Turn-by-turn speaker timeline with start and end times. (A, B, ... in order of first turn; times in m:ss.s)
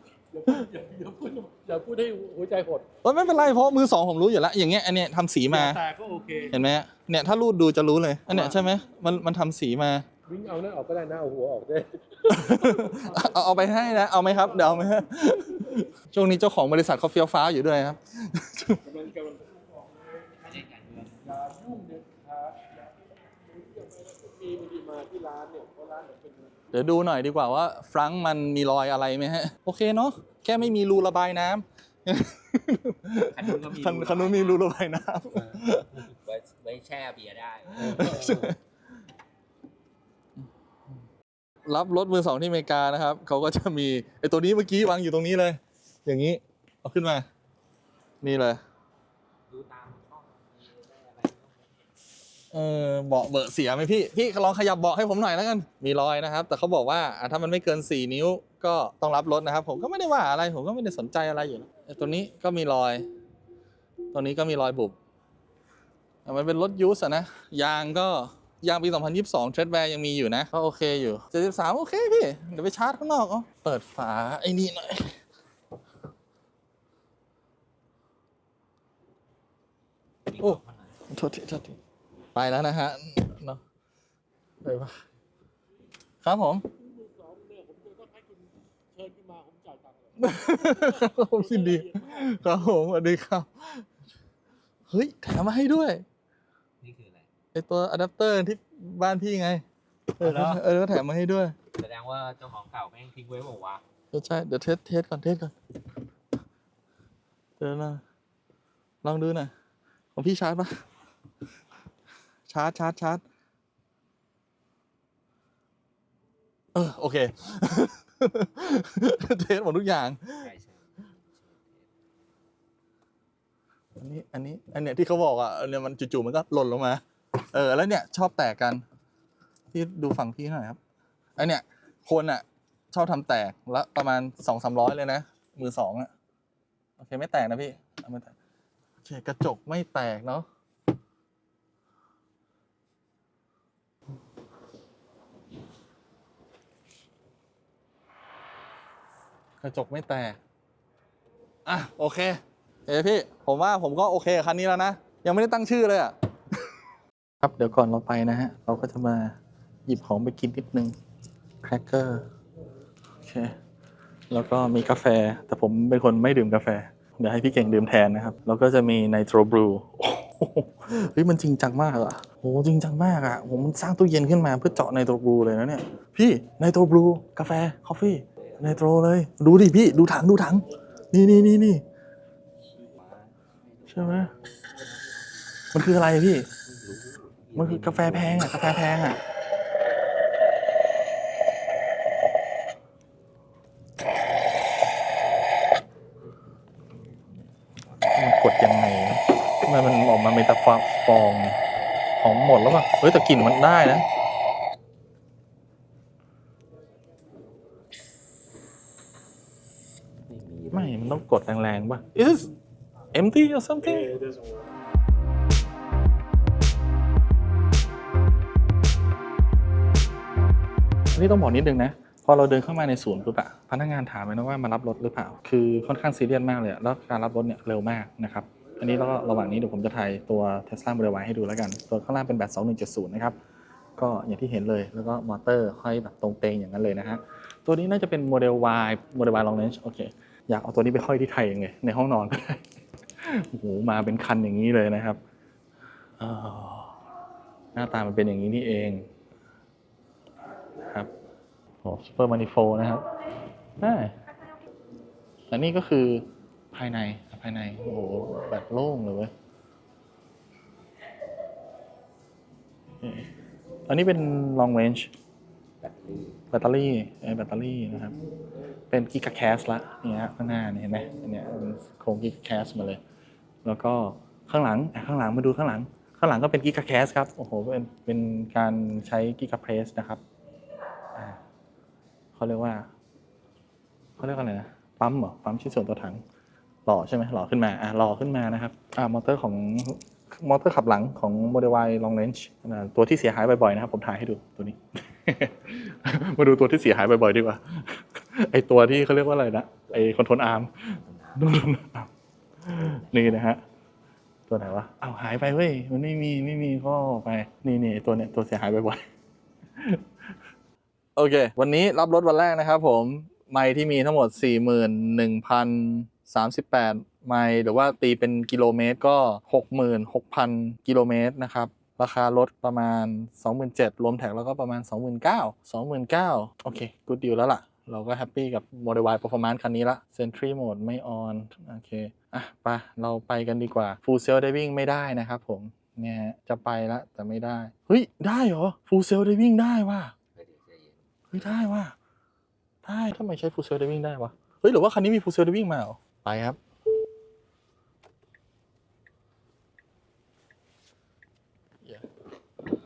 0:00.3-0:02.9 A
0:00.4-0:00.7 B
0:03.0-0:05.8 B
0:05.6-0:06.4 A
0:06.4-0:10.1 B
0:10.3-0:12.0 A
0:12.3-0:19.0 B
0:21.3-0:22.6 A
0:23.5-0:26.4 A
0:26.7-0:36.1 B
0:33.3-0:34.6 C
0:35.3-0:38.5 C
0:37.8-0:38.6 B
0:41.7-0:47.3 B
0:48.2-0:48.6 B
0:49.5-0:51.8 C
0:52.5-1:03.1 B
1:04.1-1:05.0 B
1:06.2-1:15.2 B
1:20.3-1:20.9 C
1:20.4-1:21.8 B
1:22.4-1:23.6 B
1:24.6-1:24.9 B
1:26.2-1:26.7 B
1:26.8-1:30.1 A
1:30.2-1:33.8 B
1:30.9-1:31.9 A
1:34.9-1:36.0 B
1:36.8-1:37.3 C
1:37.5-1:39.6 B
1:40.2-1:41.6 B
1:40.2-1:40.6 C
1:41.8-1:43.8 C
1:44.1-1:45.5 B
1:47.6-1:48.0 B
1:49.0-1:49.5 B
1:50.2-1:50.8 B
1:52.5-1:53.2 B
1:56.7-2:00.5 B
2:00.4-2:01.9 C
2:04.0-2:07.0 B
2:07.5-2:08.8 B
2:09.7-2:10.8 B
2:11.4-2:16.1 B
2:17.0-2:18.4 B
2:19.0-2:20.5 B
2:29.6-2:30.4 B
2:31.6-2:36.2 B
2:37.4-2:39.4 B
2:39.9-2:40.9 B
2:41.6-2:42.2 B
2:43.2-2:43.6 B
2:44.3-3:01.8 B
3:02.9-3:03.3 C
3:03.9-3:04.3 B
3:05.7-3:06.5 B
3:06.7-3:08.6 C
3:07.5-3:09.2 B
3:18.1-3:21.6 B
3:22.2-3:24.0 B
3:30.3-3:31.1 C
3:30.7-3:32.5 B
3:33.1-3:34.2 B
3:41.1-3:53.4 B
3:54.0-4:02.6 B
4:03.2-4:05.2 B
4:06.2-4:06.9 B
4:07.8-4:09.1 B
4:11.8-4:13.0 B
4:13.8-4:14.2 B
4:15.5-4:19.3 B
4:23.0-4:23.3 B
4:23.9-4:25.1 B
4:25.8-4:26.4 C
4:26.5-4:28.2 B
4:28.9-4:33.0 B
4:33.6-4:40.2 B
4:41.2-4:41.4 B
4:42.4-4:42.9 B
4:44.2-4:46.2 B
4:46.9-5:02.1 B
5:01.1-5:01.4 C
5:02.6-5:03.6 B
5:03.0-5:03.4 C
5:04.5-5:09.0 B
5:11.2-5:40.1 B
5:40.4-5:41.1 C
5:41.3-5:42.0 B
5:42.8-5:46.6 B